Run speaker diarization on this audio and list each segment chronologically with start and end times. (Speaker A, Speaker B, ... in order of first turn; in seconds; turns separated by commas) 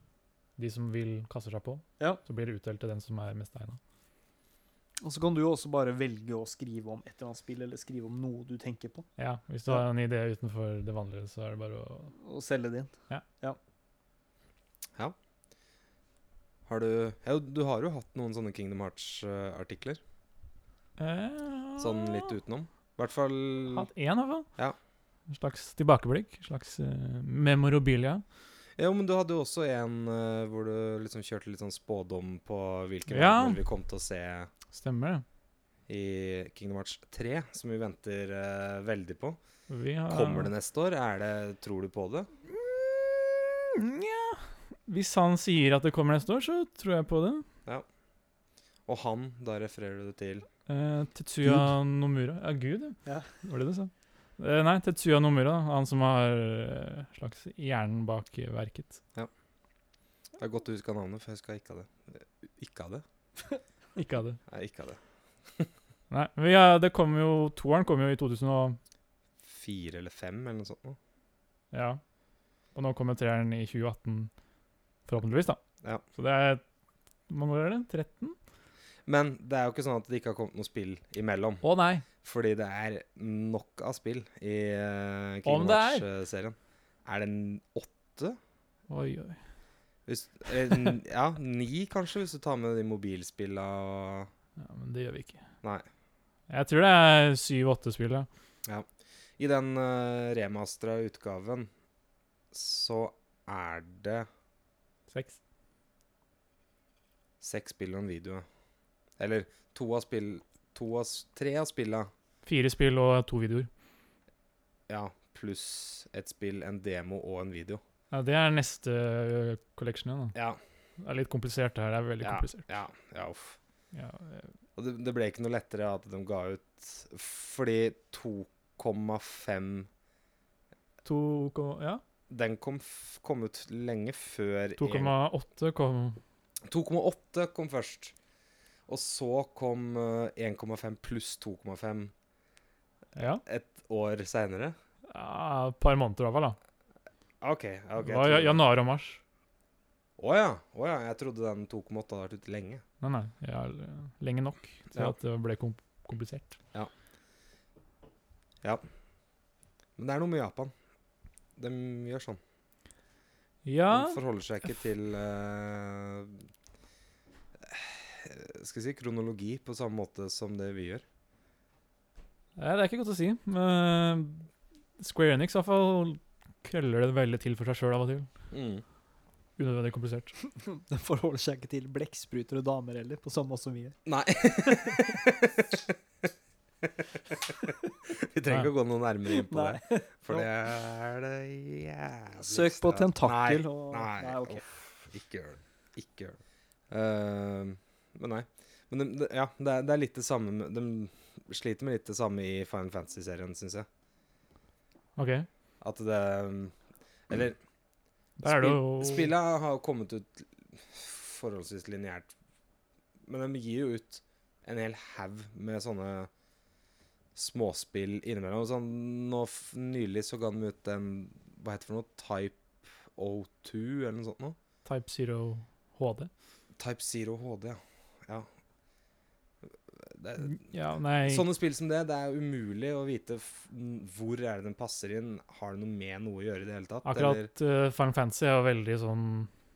Speaker A: 0.6-3.8, Speaker B: 5.0-9.1, Speaker A: 9.2-12.1, Speaker B: 12.2-13.6, Speaker C: 16.7-20.0, Speaker A: 21.0-22.3, Speaker C: 21.8-23.9, Speaker A: 23.7-24.5, Speaker A: 25.3-28.2, Speaker C: 28.8-34.5, Speaker A: 33.1-33.6, Speaker A: 34.7-35.2, Speaker C: 35.9-39.4, Speaker A: 39.7-40.5, Speaker C: 40.1-42.3, Speaker A: 42.5-47.5, Speaker C: 48.9-50.5, Speaker A: 50.7-59.0, Speaker C: 60.4-63.0, Speaker A: 64.0-64.4, Speaker C: 64.5-65.0, Speaker A: 66.1-68.8, Speaker C: 69.5-71.0, Speaker A: 71.7-72.0, Speaker A: 72.7-74.3, Speaker A: 75.1-75.6, Speaker A: 76.1-76.6, Speaker A: 77.3-78.4, Speaker C: 79.1-81.6, Speaker A: 81.6-82.0, Speaker C: 82.2-88.4, Speaker A: 85.5-86.0, Speaker A: 88.9-89.4, Speaker C: 90.1-94.3, Speaker A: 94.6-95.4, Speaker A: 96.5-98.3, Speaker C: 99.4-101.7, Speaker C: 102.5-104.3, Speaker A: 105.1-105.4, Speaker C: 107.4-108.5, Speaker C: 109.2-112.1, Speaker A: 112.4-113.7, Speaker C: 114.9-117.8, Speaker A: 118.1-120.4, Speaker A: 121.0-122.7, Speaker C: 122.2-123.6, Speaker A: 123.9-124.5, Speaker C: 124.8-129.9, Speaker A: 131.0-132.0, Speaker C: 132.3-135.1, Speaker A: 134.8-136.2, Speaker C: 136.7-138.1, Speaker C: 138.9-142.1, Speaker A: 143.2-143.4, Speaker C: 143.4-144.8, Speaker A: 145.1-146.6, Speaker C: 147.4-148.6, Speaker A: 148.0-149.2, Speaker C: 150.2-152.8, Speaker A: 153.0-156.6, Speaker C: 160.0-160.7, Speaker C: 161.6-162.4, Speaker A: 163.6-164.2, Speaker C: 163.9-166.4, Speaker C: 167.7-171.0, Speaker A: 172.6-174.5, Speaker A: 175.0-178.3, Speaker C: 178.5-178.8, Speaker A: 179.6-180.3, Speaker B: 180.6-184.0, Speaker C: 184.1-185.9, Speaker C: 188.1-196.4, Speaker B: 189.3-190.5, Speaker B: 192.4-194.7, Speaker C: 196.9-203.9, Speaker A: 205.2-205.5, Speaker C: 205.8-206.7, Speaker C: 207.3-207.6, Speaker A: 208.4-209.3, Speaker C: 208.4-212.3, Speaker C: 213.3-216.3, Speaker C: 217.3-224.6, Speaker A: 224.8-226.3, Speaker C: 226.8-228.5, Speaker C: 230.0-230.6, Speaker A: 230.4-231.4, Speaker C: 231.2-237.5, Speaker A: 237.1-239.5